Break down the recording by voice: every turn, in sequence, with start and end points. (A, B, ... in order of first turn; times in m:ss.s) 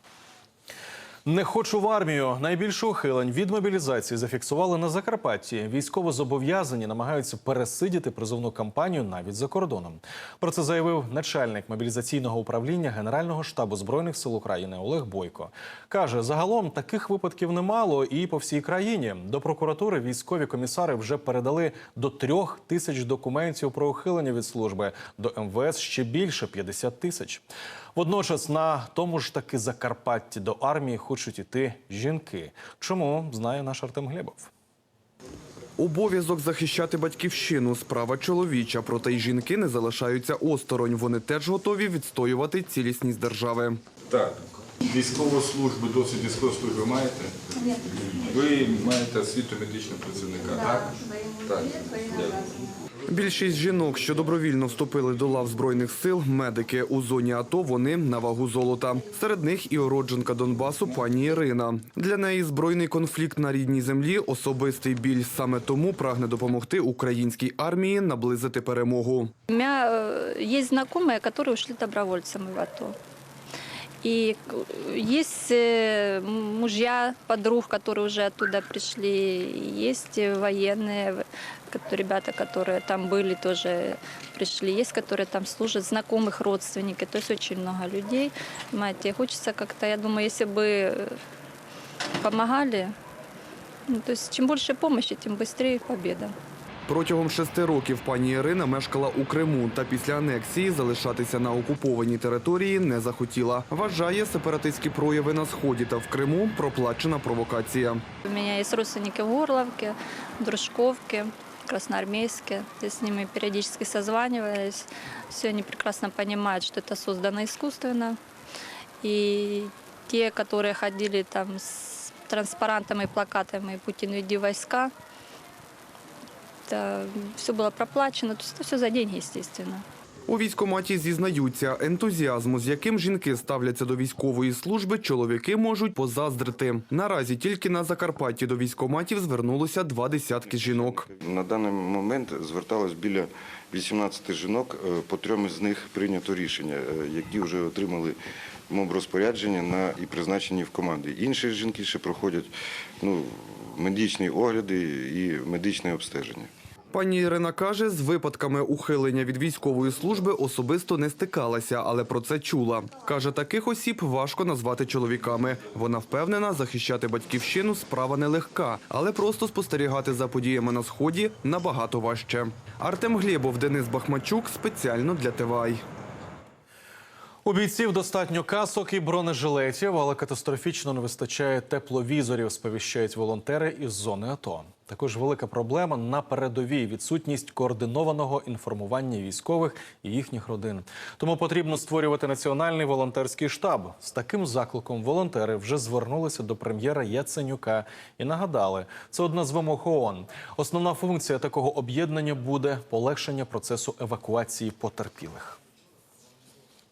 0:01.2-0:27.4 A
0:27.9-0:34.5 A
0:35.8-0:43.8 B
0:44.9-0:47.3 C
0:48.3-0:50.9 C
0:51.5-0:52.4 C
0:53.1-1:09.3 B
1:09.5-1:13.0 D
1:14.0-1:31.2 D
1:32.2-1:32.9 D
1:33.9-1:36.3 D
1:36.9-1:48.0 B
1:48.2-1:58.2 D
1:59.0-2:04.9 D
2:06.7-2:09.8 D
2:10.3-2:21.0 B
2:20.4-2:28.2 E
2:28.7-2:36.5 E
2:36.9-2:55.8 B
2:57.4-3:25.6 A